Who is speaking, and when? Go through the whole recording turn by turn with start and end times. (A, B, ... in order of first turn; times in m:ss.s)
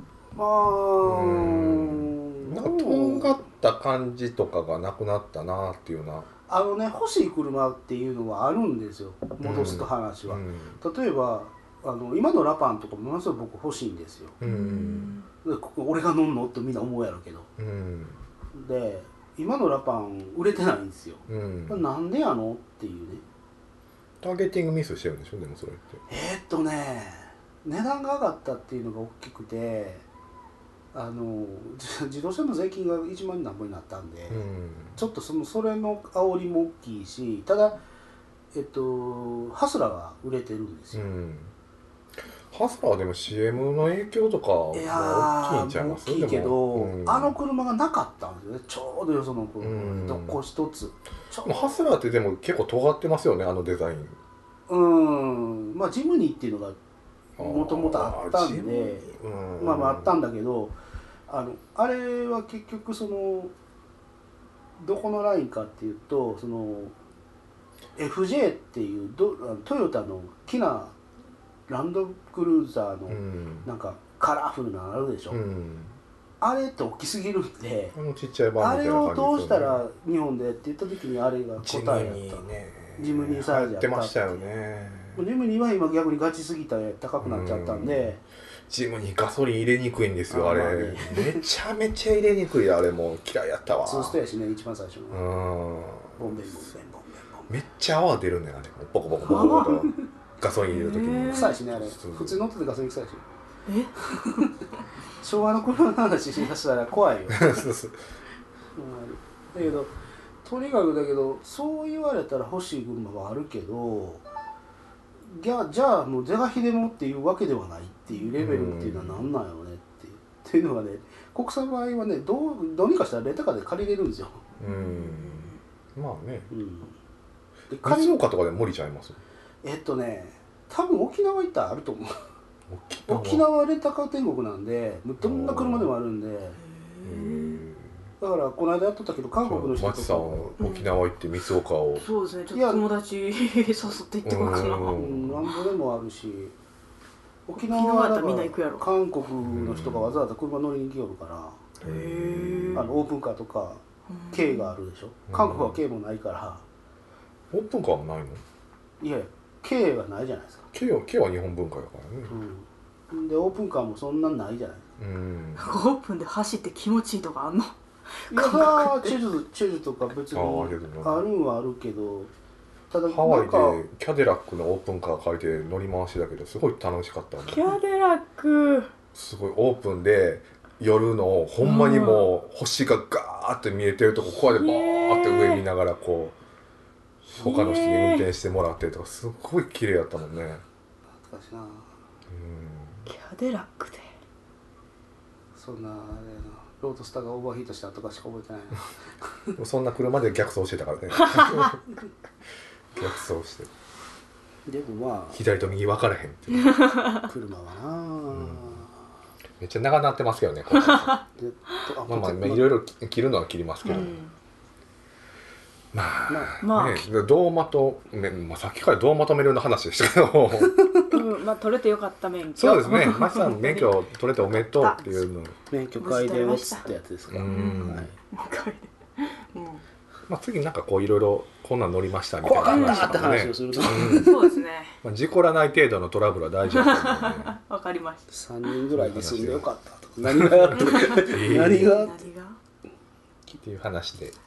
0:00.3-0:03.4 A
0:01.0-0:06.3 B
0:06.5-0:14.4 A
0:09.4-0:10.8 B
0:14.4-0:15.2 B
0:14.4-0:15.3 C
0:15.4-0:17.5 A
0:17.6-0:18.2 B
0:18.5-0:23.2 A
0:21.3-0:21.8 B
0:24.2-0:26.0 B
0:26.1-0:30.0 A
0:30.9-0:34.4 A
0:34.3-0:35.0 B
0:35.0-0:37.8 A
0:38.5-0:41.0 A
0:40.9-0:41.5 B
0:42.5-0:47.3 B
0:44.7-0:51.9 A
0:49.6-0:50.4 B
0:51.4-0:54.2 B
0:54.7-0:56.8 A
0:57.4-1:00.7 A
0:57.4-1:00.2 B
1:01.3-1:03.5 A
1:04.8-1:06.9 A
1:08.0-1:11.0 A
1:11.7-1:15.4 A
1:13.1-1:13.6 B
1:15.3-1:16.0 B
1:16.4-1:17.9 A
1:17.9-1:19.8 B
1:18.6-1:24.4 A
1:21.6-1:25.2 B
1:25.2-1:28.2 A
1:27.2-1:28.2 B
1:28.7-1:34.2 B
1:30.3-1:31.5 A
1:33.8-1:35.2 A
1:35.1-1:36.4 B
1:36.2-1:37.5 A
1:37.5-1:42.4 B
1:39.2-1:40.0 C
1:40.6-1:41.6 C
1:41.3-1:43.2 A
1:43.7-1:43.9 C
1:44.0-1:44.5 A
1:45.2-1:47.7 A
1:47.3-1:48.0 B
1:48.7-1:54.2 A
1:55.2-2:04.4 A
1:58.4-1:59.3 B
2:04.6-2:06.5 B
2:04.6-2:05.6 C
2:06.5-2:07.0 A
2:07.7-2:08.2 A
2:07.8-2:09.2 B
2:09.6-2:12.1 A
2:12.7-2:13.4 B
2:13.1-2:16.6 A
2:15.2-2:15.9 B
2:16.6-2:17.6 C
2:17.0-2:18.0 B
2:18.2-2:20.6 A
2:19.4-2:22.1 B
2:20.6-2:20.9 C
2:22.0-2:25.0 C
2:22.5-2:22.8 A
2:24.2-2:25.4 B
2:24.9-2:26.5 A
2:27.4-2:31.6 A
2:27.6-2:28.9 C
2:29.4-2:30.2 B
2:31.8-2:33.0 B
2:31.8-2:32.9 C
2:32.7-2:36.6 A
2:34.1-2:34.7 C
2:35.3-2:35.8 B
2:37.5-2:38.4 B
2:39.0-2:40.7 A
2:40.7-2:42.3 B
2:42.3-2:44.9 A
2:45.0-2:45.7 B
2:45.6-2:49.2 C
2:48.3-2:52.3 A
2:50.3-2:51.2 B
2:52.9-2:53.8 A
2:53.1-2:57.7 B
2:57.5-2:58.9 C
2:59.1-3:06.4 B
3:01.6-3:02.3 C
3:04.2-3:05.6 C
3:07.2-3:10.6 B
3:07.4-3:08.3 C
3:11.1-3:11.9 A
3:12.3-3:13.1 B
3:13.1-3:14.1 C
3:15.5-3:19.5 A
3:19.6-3:21.8 B
3:21.2-3:21.7 C
3:22.9-3:23.7 B
3:24.6-3:25.7 A
3:25.3-3:26.7 B
3:26.8-3:27.2 C
3:27.2-3:28.9 A
3:28.3-3:28.8 B
3:29.6-3:31.2 B
3:30.7-3:31.2 C
3:31.4-3:32.7 A
3:32.1-3:34.2 B
3:33.8-3:34.3 C
3:35.9-3:41.1 B
3:36.3-3:36.6 A
3:36.6-3:37.1 C
3:41.1-3:45.3 C
3:42.6-3:45.6 B
3:45.7-3:48.1 A
3:46.0-3:49.8 C
3:47.3-3:48.1 B
3:50.3-3:54.5 B
3:52.4-3:54.4 A
3:52.6-3:53.3 C
3:53.8-3:55.0 C
3:55.0-3:57.6 B
3:56.7-3:58.8 C
3:58.3-4:02.3 A
3:58.9-3:59.6 B
4:00.2-4:01.9 B
4:00.7-4:02.6 C
4:03.5-4:04.4 B